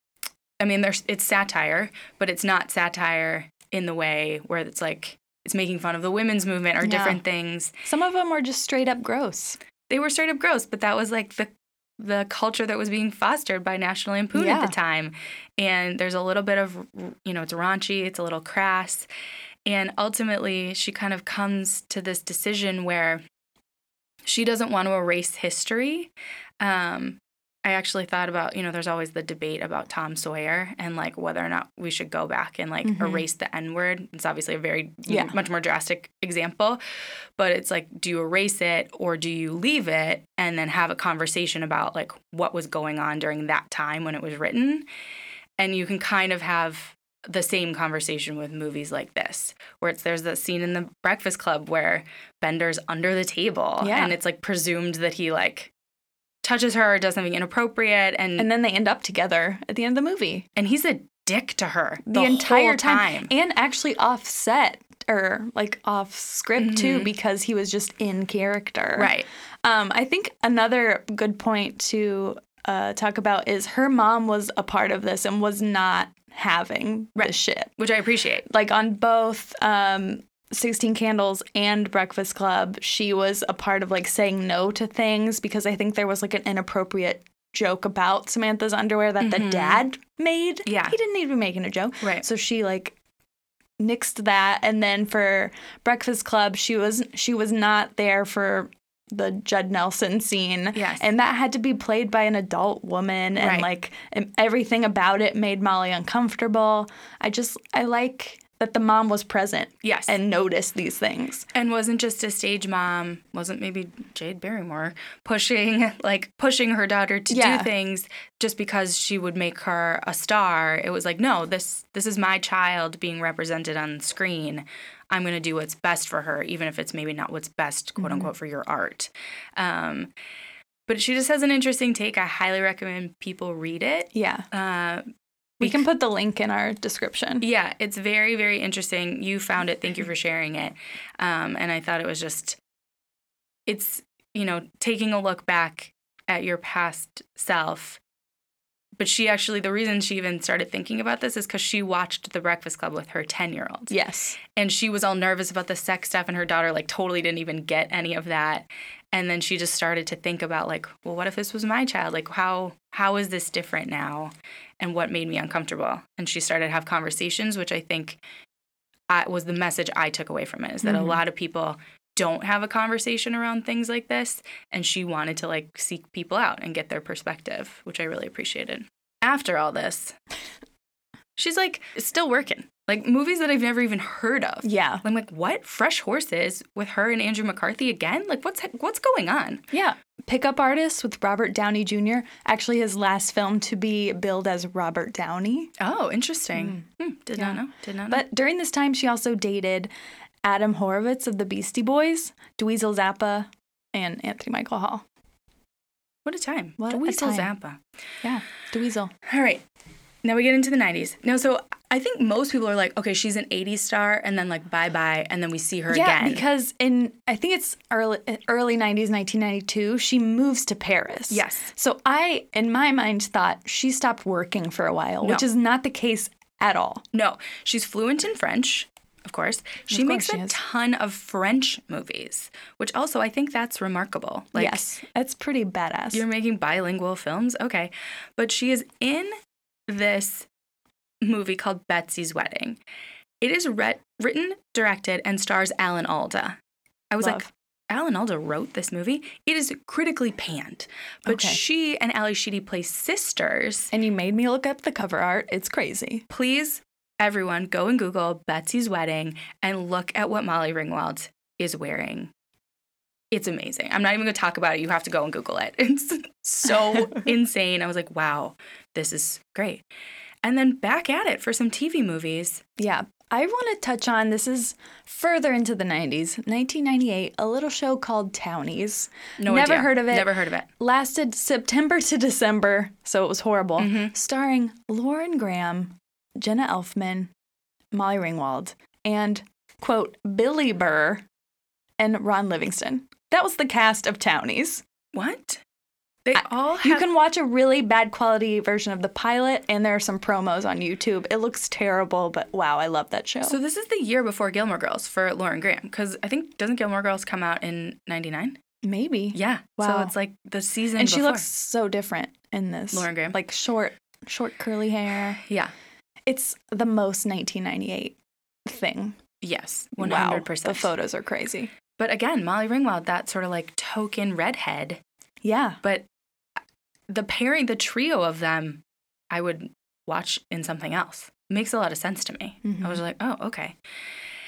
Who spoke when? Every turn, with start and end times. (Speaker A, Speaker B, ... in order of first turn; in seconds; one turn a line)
Speaker A: 0.6-7.7
Speaker B: 6.8-7.2
Speaker B: 7.8-9.6
Speaker A: 9.9-19.1
Speaker B: 14.3-14.7
Speaker A: 19.6-23.2
Speaker A: 24.2-36.8
Speaker B: 32.8-33.2
Speaker B: 35.1-35.3
Speaker A: 37.4-44.9
Speaker A: 45.6-55.7
Speaker B: 53.8-54.1
Speaker A: 56.4-58.5
Speaker B: 58.4-60.5
Speaker A: 60.5-63.3
Speaker B: 62.1-77.7
Speaker A: 66.6-67.1
Speaker A: 69.0-69.3
Speaker A: 77.2-78.5
Speaker B: 78.5-93.0
Speaker A: 89.2-89.8
Speaker A: 90.7-90.9
Speaker B: 93.8-111.5
Speaker A: 100.7-101.1
Speaker A: 103.4-103.7
Speaker A: 109.8-110.2
Speaker A: 111.5-130.1
Speaker B: 117.3-117.7
Speaker B: 128.0-128.3
Speaker A: 130.9-135.1
Speaker B: 134.1-134.5
Speaker B: 135.6-137.4
Speaker A: 137.4-142.6
Speaker A: 143.7-148.0
Speaker A: 149.0-153.9
Speaker B: 153.9-154.4
Speaker A: 154.4-168.2
Speaker A: 169.1-180.2
Speaker B: 170.8-171.2
Speaker A: 181.4-189.6
Speaker B: 184.6-185.0
Speaker B: 189.7-195.7
Speaker A: 195.8-198.2
Speaker B: 196.6-196.8
Speaker B: 197.4-199.9
Speaker B: 200.4-205.0
Speaker A: 206.2-207.8
Speaker B: 206.8-207.5
Speaker B: 208.2-209.1
Speaker A: 209.2-209.6
Speaker A: 210.2-216.4
Speaker B: 215.9-227.0
Speaker A: 221.3-221.7
Speaker A: 227.1-234.8
Speaker B: 229.9-230.6
Speaker B: 234.5-236.2
Speaker A: 236.1-239.3
Speaker A: 239.9-240.5
Speaker A: 241.2-242.8
Speaker A: 243.4-246.6
Speaker A: 247.1-253.9
Speaker B: 247.2-247.5
Speaker B: 251.2-251.6
Speaker B: 253.9-256.2
Speaker A: 256.3-262.3
Speaker A: 263.3-269.8
Speaker A: 270.4-272.6
Speaker B: 272.8-287.3
Speaker A: 279.4-280.7
Speaker A: 283.8-284.1
Speaker B: 287.9-291.2
Speaker B: 292.0-294.8
Speaker A: 295.1-295.6
Speaker A: 296.2-297.1
Speaker B: 296.4-303.6
Speaker A: 303.4-308.6
Speaker B: 308.8-310.1
Speaker A: 309.3-311.4
Speaker B: 310.9-315.4
Speaker A: 312.9-313.4
Speaker A: 315.4-315.7
Speaker B: 316.3-319.2
Speaker A: 319.4-320.9
Speaker B: 320.0-321.7
Speaker A: 322.0-325.0
Speaker B: 325.4-325.8
Speaker A: 327.1-333.8
Speaker B: 332.6-333.0